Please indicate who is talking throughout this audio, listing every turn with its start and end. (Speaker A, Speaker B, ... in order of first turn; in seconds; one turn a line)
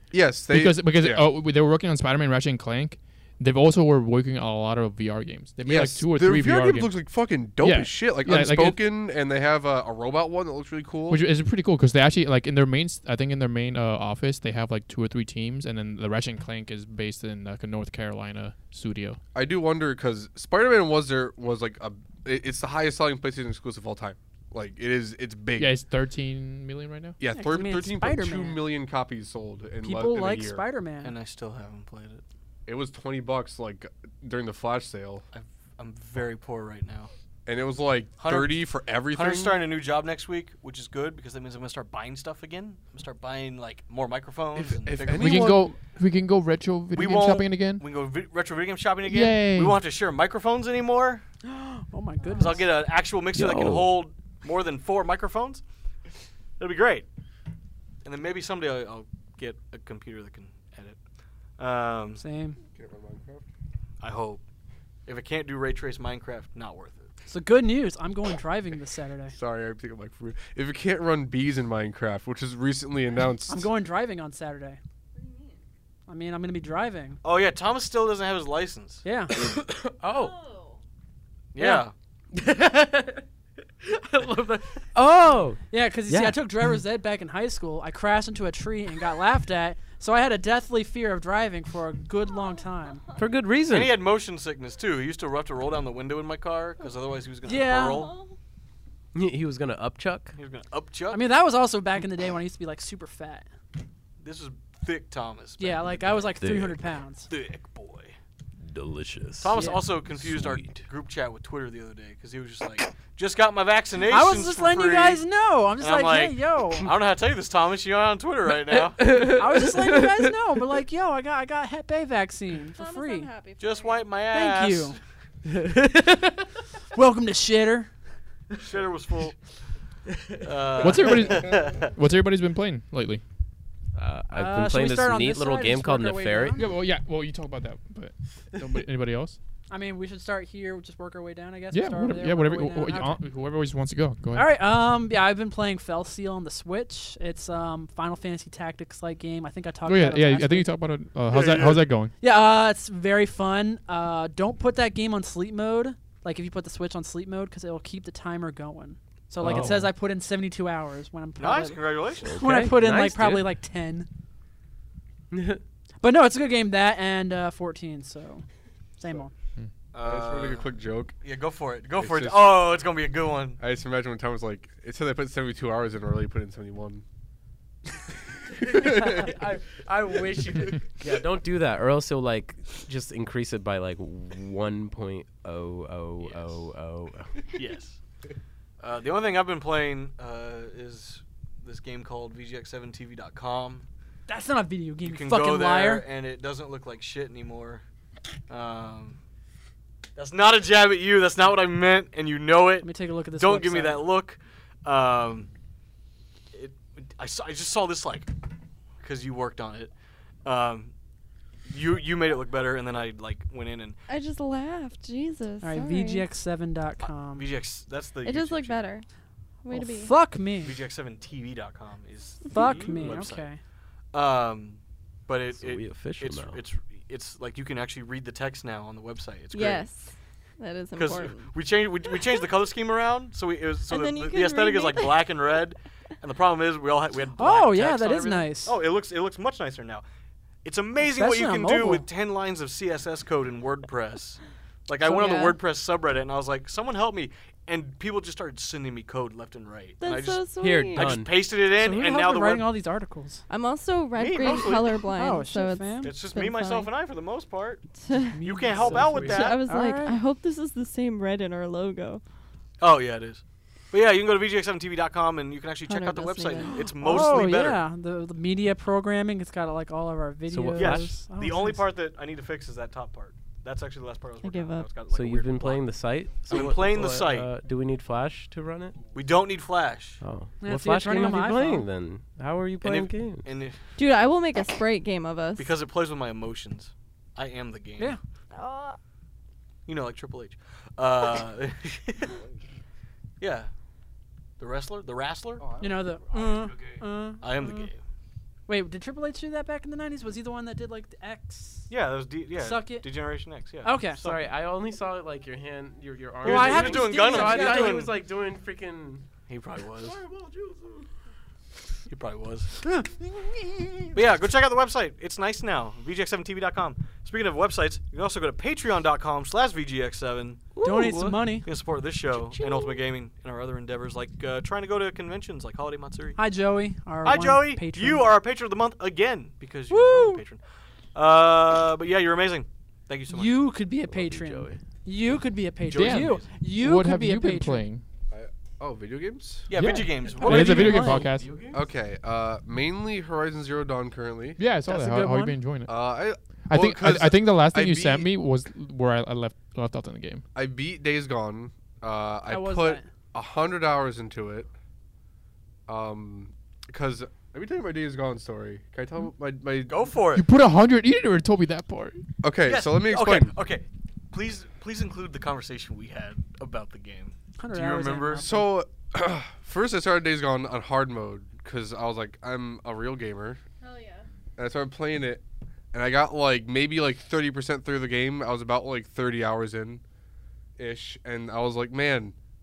Speaker A: 0.1-1.3
Speaker B: 0.5-7.0
Speaker A: 5.7-11.2
Speaker B: 7.6-8.8
Speaker B: 11.1-19.2
Speaker A: 19.4-25.8
Speaker B: 25.6-27.2
Speaker A: 27.2-30.6
Speaker C: 27.3-28.6
Speaker C: 29.8-31.1
Speaker D: 31.0-32.2
Speaker A: 32.7-35.2
Speaker D: 35.3-37.1
Speaker A: 37.5-39.6
Speaker D: 38.2-45.6
Speaker A: 44.5-45.8
Speaker B: 45.1-47.8
Speaker D: 47.0-51.2
Speaker B: 49.0-49.8
Speaker C: 51.5-52.7
Speaker D: 52.4-55.6
Speaker E: 53.3-53.9
Speaker D: 56.6-57.1
Speaker D: 58.0-61.0
Speaker D: 61.6-62.2
Speaker C: 62.2-62.6
Speaker A: 62.8-63.5
Speaker D: 64.0-64.4
Speaker D: 65.1-67.1
Speaker C: 67.3-69.3
Speaker A: 69.3-73.7
Speaker C: 73.5-74.8
Speaker F: 75.2-75.6
Speaker C: 76.1-77.2
Speaker D: 77.2-79.0
Speaker C: 79.0-79.4
Speaker E: 79.4-80.4
Speaker F: 80.1-80.8
Speaker D: 81.5-81.9
Speaker E: 82.3-83.2
Speaker E: 83.8-86.4
Speaker C: 85.7-93.0
Speaker F: 92.4-93.2
Speaker E: 93.2-94.0
Speaker D: 93.7-98.1
Speaker C: 97.5-98.1
Speaker F: 97.8-98.4
Speaker E: 99.1-100.4
Speaker D: 100.4-101.2
Speaker C: 101.1-103.5
Speaker D: 104.2-106.3
Speaker C: 105.6-107.3
Speaker E: 106.4-106.8
Speaker D: 107.3-108.2
Speaker E: 108.6-110.8
Speaker D: 109.4-115.2
Speaker C: 109.5-109.8
Speaker C: 114.1-116.9
Speaker D: 115.8-119.2
Speaker E: 118.7-120.3
Speaker C: 119.2-123.3
Speaker F: 122.7-124.1
Speaker D: 123.6-125.0
Speaker C: 124.3-125.0
Speaker E: 125.5-126.5
Speaker C: 126.9-127.9
Speaker D: 128.5-129.4
Speaker D: 130.4-131.9
Speaker B: 130.8-133.2
Speaker E: 134.0-136.6
Speaker C: 134.3-136.7
Speaker B: 136.6-139.4
Speaker C: 139.7-143.2
Speaker B: 141.7-144.5
Speaker C: 144.3-150.7
Speaker B: 149.9-152.1
Speaker D: 151.3-151.9
Speaker C: 152.2-164.1
Speaker B: 159.4-159.9
Speaker D: 161.4-162.4
Speaker E: 162.2-163.5
Speaker E: 165.3-165.6
Speaker C: 166.0-168.4
Speaker C: 169.0-169.3
Speaker D: 169.9-170.7
Speaker A: 169.9-171.2
Speaker D: 171.2-173.6
Speaker A: 172.0-172.6
Speaker A: 173.6-177.0
Speaker E: 178.5-187.5
Speaker A: 178.6-179.3
Speaker D: 186.2-186.6
Speaker D: 187.5-188.0
Speaker D: 188.8-193.9
Speaker C: 194.3-196.1
Speaker D: 195.0-197.8
Speaker D: 198.5-199.2
Speaker D: 200.2-205.5
Speaker C: 202.8-204.1
Speaker D: 206.5-208.3
Speaker D: 209.0-209.9
Speaker D: 210.4-210.9
Speaker D: 211.7-214.0
Speaker F: 214.1-216.3
Speaker C: 215.6-217.5
Speaker D: 217.3-218.8
Speaker F: 218.2-219.1
Speaker F: 219.6-220.2
Speaker C: 219.7-220.8
Speaker D: 220.6-223.5
Speaker C: 222.5-223.6
Speaker D: 224.1-229.9
Speaker E: 225.5-226.6
Speaker F: 229.5-231.5
Speaker D: 230.9-240.0
Speaker F: 232.1-232.4
Speaker F: 233.9-235.3
Speaker C: 237.4-238.8
Speaker D: 240.6-252.7
Speaker C: 241.1-242.1
Speaker C: 245.0-245.6
Speaker F: 250.0-251.2
Speaker E: 250.6-251.3
Speaker C: 251.8-253.4
Speaker F: 253.5-256.9
Speaker D: 254.2-255.1
Speaker C: 255.2-256.1
Speaker D: 256.0-257.9
Speaker F: 258.0-258.4
Speaker C: 258.3-260.2
Speaker D: 258.4-259.6
Speaker E: 258.7-259.4
Speaker F: 259.2-262.2
Speaker D: 262.8-267.8
Speaker F: 265.9-267.4
Speaker C: 266.6-271.8
Speaker E: 270.5-271.2
Speaker D: 270.8-275.9
Speaker F: 274.4-274.9
Speaker E: 275.1-279.0
Speaker D: 276.5-277.5
Speaker D: 279.1-280.2
Speaker E: 280.2-283.5
Speaker C: 280.6-281.9
Speaker D: 282.8-283.9
Speaker F: 284.0-285.7
Speaker D: 285.6-288.2
Speaker F: 288.5-289.0
Speaker D: 289.9-292.4
Speaker D: 293.4-293.7
Speaker D: 294.6-295.7
Speaker A: 295.6-296.2
Speaker C: 295.8-297.9
Speaker D: 296.3-298.0
Speaker C: 298.7-301.9
Speaker D: 301.9-304.4
Speaker C: 302.6-303.1
Speaker C: 303.8-304.2
Speaker E: 304.2-309.2
Speaker C: 306.4-308.0
Speaker D: 306.4-308.1
Speaker D: 309.5-310.2
Speaker E: 310.0-311.1
Speaker D: 312.1-312.8
Speaker D: 314.1-320.7
Speaker E: 320.8-321.6
Speaker C: 320.8-321.7
Speaker D: 321.6-326.4
Speaker C: 326.4-328.3
Speaker D: 327.2-330.6
Speaker C: 329.9-330.4
Speaker D: 331.1-333.6
Speaker C: 333.3-337.9
Speaker E: 334.1-334.8
Speaker D: 335.9-336.5
Speaker B: 335.9-338.0
Speaker A: 338.3-339.7
Speaker D: 339.7-341.1
Speaker B: 339.8-341.5
Speaker C: 339.8-341.3
Speaker E: 340.4-341.8
Speaker A: 341.7-344.6
Speaker B: 344.6-346.0
Speaker C: 344.9-345.6
Speaker A: 345.9-348.3
Speaker B: 346.7-350.4
Speaker A: 350.6-354.7
Speaker C: 352.5-353.1
Speaker A: 355.9-360.0
Speaker D: 359.9-360.5
Speaker B: 360.4-362.2
Speaker A: 362.4-363.5
Speaker D: 362.6-368.5
Speaker C: 367.6-368.7
Speaker A: 368.4-373.6
Speaker F: 373.8-374.2
Speaker A: 374.6-380.0
Speaker A: 380.8-382.4